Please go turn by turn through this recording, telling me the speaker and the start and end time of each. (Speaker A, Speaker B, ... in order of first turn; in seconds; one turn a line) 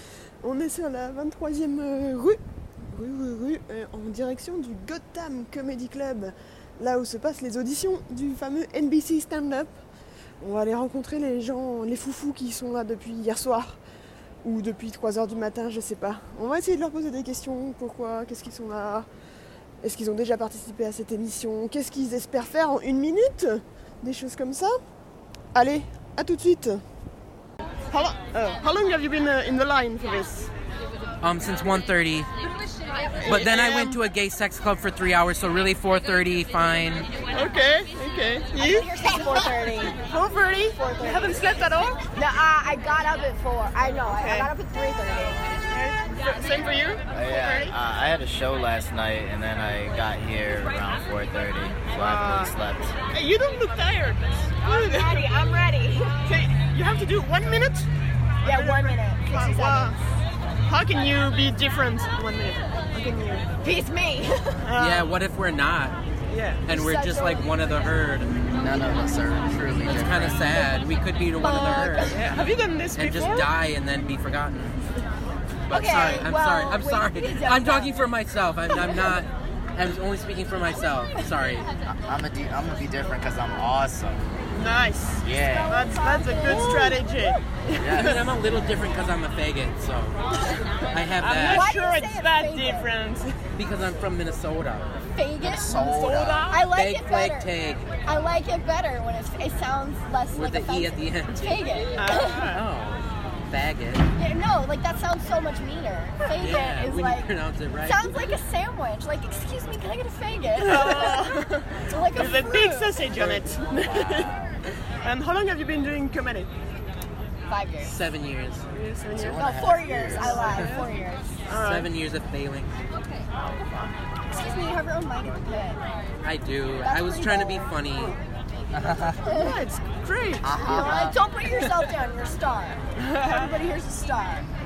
Speaker A: 0.4-9.7
Speaker A: 10.4-13.8
Speaker A: 14.4-19.1
Speaker A: 19.8-24.8
Speaker A: 25.5-26.8
Speaker A: 27.9-30.5
Speaker B: 31.2-32.3
Speaker A: 33.2-34.0
Speaker B: 33.2-37.1
Speaker A: 37.3-38.9
Speaker C: 38.5-40.0
Speaker A: 40.1-42.0
Speaker C: 40.7-41.5
Speaker C: 42.1-45.6
Speaker A: 44.1-44.5
Speaker A: 45.7-47.7
Speaker D: 47.1-52.9
Speaker A: 52.0-52.5
Speaker A: 53.1-55.4
Speaker C: 54.6-56.3
Speaker A: 56.2-57.9
Speaker A: 58.4-60.0
Speaker C: 58.4-60.0
Speaker A: 60.7-63.5
Speaker C: 63.6-64.8
Speaker A: 64.6-65.0
Speaker B: 64.8-66.0
Speaker A: 66.3-66.7
Speaker B: 66.7-68.3
Speaker C: 66.7-67.5
Speaker D: 68.6-70.6
Speaker B: 69.8-74.7
Speaker C: 71.4-72.2
Speaker A: 72.0-73.5
Speaker B: 75.7-81.7
Speaker C: 75.7-78.1
Speaker C: 78.7-79.1
Speaker D: 81.9-84.2
Speaker A: 84.5-88.2
Speaker D: 85.2-85.9
Speaker C: 85.3-87.2
Speaker D: 87.8-88.2
Speaker B: 87.9-90.2
Speaker B: 90.9-91.7
Speaker A: 91.1-93.4
Speaker C: 91.5-93.0
Speaker B: 93.6-94.9
Speaker C: 95.1-95.8
Speaker D: 95.4-96.5
Speaker A: 95.7-96.6
Speaker C: 96.5-102.5
Speaker B: 96.7-98.0
Speaker B: 100.3-101.9
Speaker A: 102.0-102.6
Speaker B: 102.5-104.1
Speaker C: 104.2-113.0
Speaker B: 106.3-108.3
Speaker A: 110.6-114.3
Speaker A: 115.0-116.5
Speaker C: 117.5-117.9
Speaker B: 117.8-118.6
Speaker A: 118.7-119.4
Speaker D: 119.2-120.5
Speaker C: 119.3-121.5
Speaker A: 120.2-120.8
Speaker A: 121.5-121.9
Speaker B: 121.5-122.8
Speaker C: 124.3-125.8
Speaker B: 126.2-128.2
Speaker C: 126.8-128.2
Speaker D: 128.7-129.4
Speaker C: 129.2-129.6
Speaker A: 129.4-130.4
Speaker D: 130.4-131.2
Speaker C: 130.7-134.5